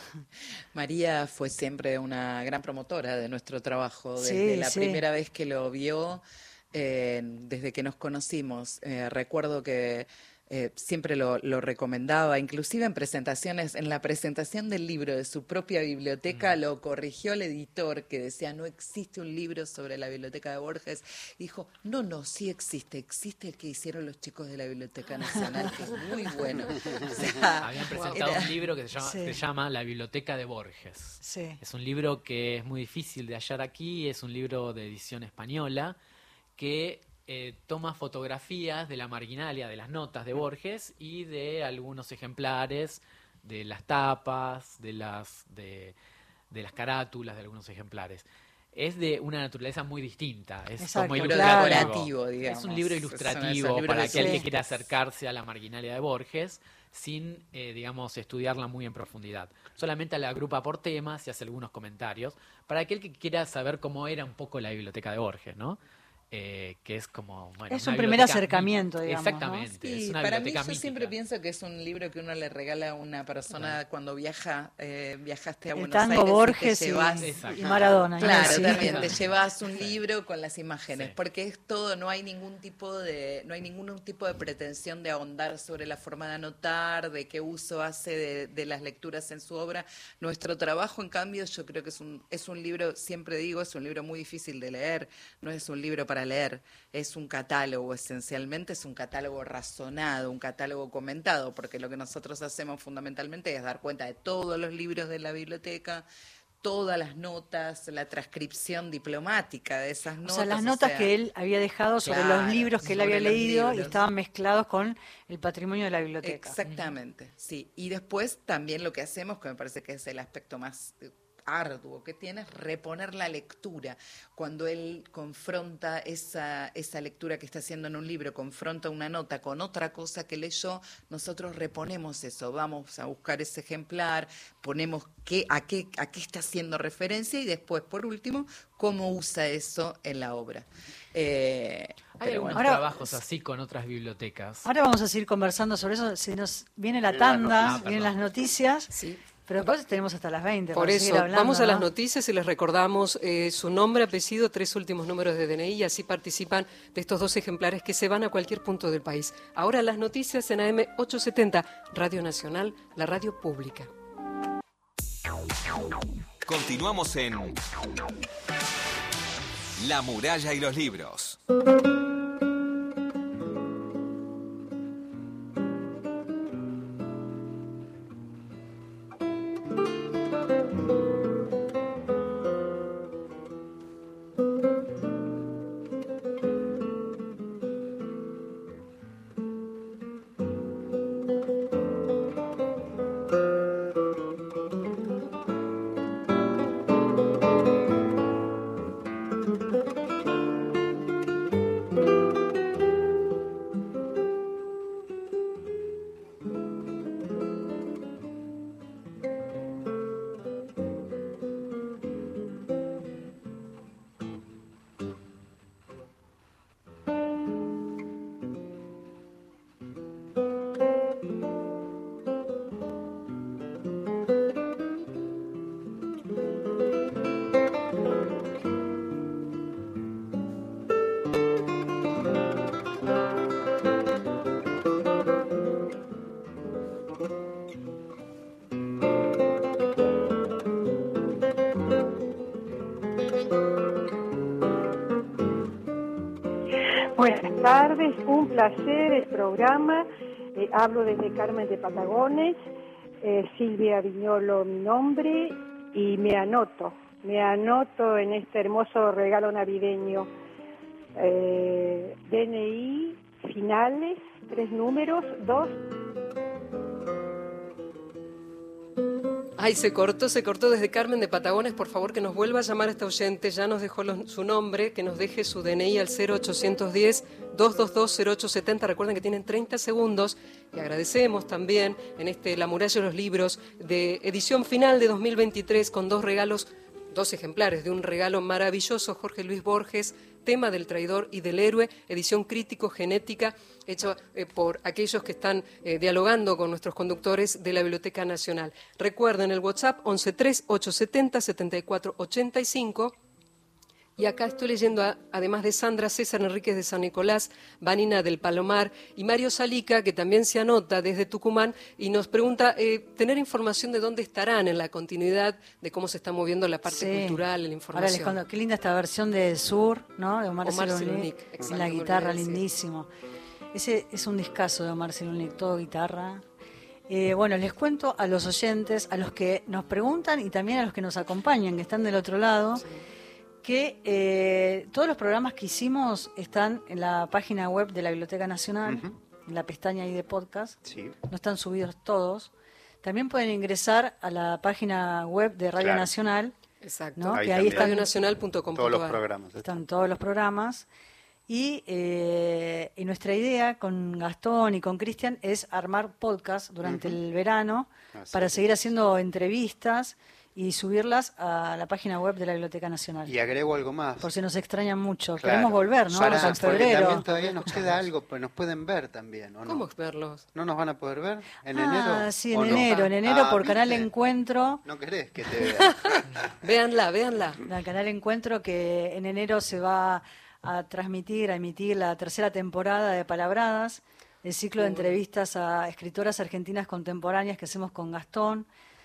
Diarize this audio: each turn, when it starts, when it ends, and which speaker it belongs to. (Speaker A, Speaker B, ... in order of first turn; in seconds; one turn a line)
Speaker A: 0.7-28.5
Speaker B: 4.2-5.0
Speaker C: 27.6-36.0
Speaker D: 27.9-28.3
Speaker B: 29.0-29.4
Speaker B: 31.2-31.6
Speaker C: 36.6-46.0
Speaker C: 46.5-65.8
Speaker B: 50.8-51.9
Speaker A: 51.1-54.5
Speaker B: 54.1-54.4
Speaker C: 66.3-71.1
Speaker B: 67.7-69.7
Speaker A: 69.8-106.0
Speaker C: 73.5-73.8
Speaker B: 75.8-79.1
Speaker C: 77.2-80.0
Speaker A: 106.6-111.1
Speaker B: 110.2-116.6
Speaker A: 112.0-114.0
Speaker A: 116.2-142.7
Speaker C: 142.2-144.7
Speaker B: 142.6-142.9
Speaker B: 144.7-148.9
Speaker E: 147.1-147.8
Speaker C: 147.6-148.2
Speaker D: 148.9-149.7
Speaker B: 149.5-151.9
Speaker D: 150.7-163.9
Speaker F: 166.4-167.6
Speaker F: 169.8-171.4
Speaker G: 247.2-252.6
Speaker G: 253.2-260.3
Speaker G: 261.2-265.8
Speaker D: 269.6-303.1
Speaker D: 304.2-318.4
Speaker B: 316.9-317.4
Speaker B: 317.9-323.1
Speaker D: 320.6-322.6
Speaker B: 323.7-326.4
Speaker B: 327.1-332.9
Speaker D: 332.8-333.0
Speaker B: 333.6-342.5
Speaker E: 338.9-339.1
Speaker E: 340.8-341.1
Speaker B: 343.0-346.5
Speaker E: 345.8-346.1
Speaker D: 346.8-349.2
Speaker B: 347.2-348.1
Speaker E: 347.3-348.1
Speaker E: 348.7-349.8
Speaker B: 349.6-350.9
Speaker B: 351.5-363.3
Speaker E: 356.8-357.2
Speaker E: 358.1-358.9
Speaker E: 363.3-364.3
Speaker B: 364.2-367.8
Speaker E: 365.4-369.9
Speaker D: 366.2-367.9
Speaker D: 369.6-370.4
Speaker E: 370.5-374.1
Speaker B: 371.7-374.8
Speaker E: 374.8-376.5
Speaker D: 375.7-377.6
Speaker B: 377.7-388.7
Speaker D: 384.8-385.2